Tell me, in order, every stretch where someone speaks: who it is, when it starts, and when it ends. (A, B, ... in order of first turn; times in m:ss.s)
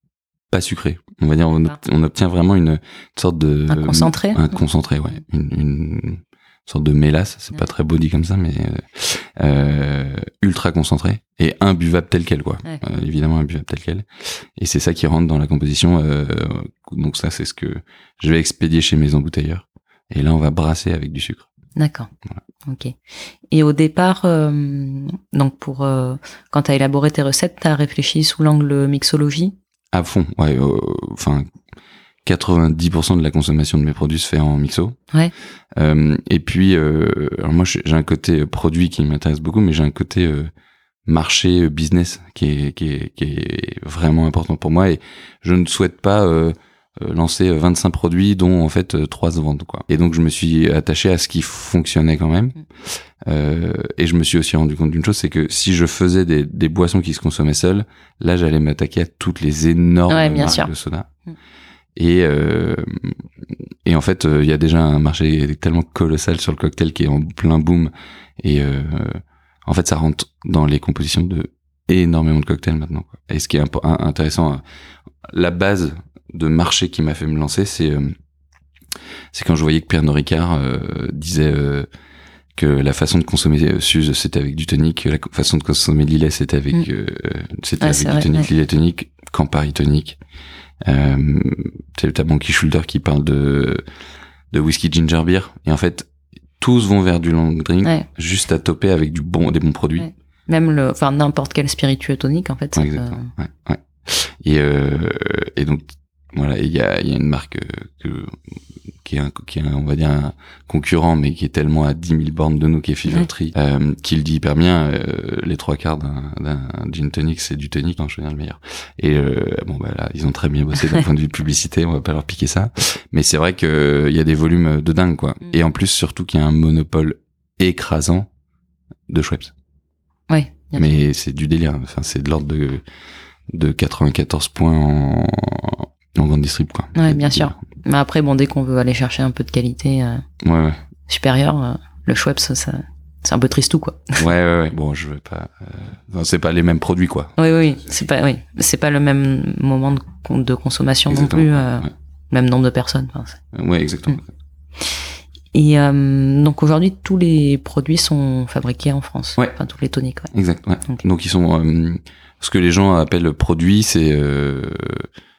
0:00.5-0:21.5 A
0:03.7-0:04.4 B
0:21.8-0:22.1 B
0:22.7-0:23.0 B
0:23.5-0:29.6 B
0:29.9-0:31.5 A
0:32.2-0:35.0 A
0:35.8-0:40.5 A
0:41.1-1:01.1 A
1:00.1-1:00.7 B
1:02.0-1:14.6 A
1:15.3-1:18.2 A
1:19.3-1:21.9 A
1:22.6-1:30.2 A
1:27.8-1:28.5 B
1:30.8-1:33.8 A
1:34.5-1:36.1 A
1:36.6-1:40.1 A
1:40.0-1:43.3 B
1:42.8-1:48.4 A
1:49.0-2:08.3 A
2:09.1-2:09.5 A
2:10.3-2:11.0 B
2:10.8-2:12.8 A
2:13.5-2:17.6 A
2:17.0-2:20.2 B
2:20.4-2:20.8 A
2:21.1-2:24.2 B
2:24.2-2:27.3 A
2:27.4-2:33.4 B
2:31.1-2:31.9 A
2:33.5-2:34.3 A
2:34.8-2:40.3 B
2:40.3-2:45.1 A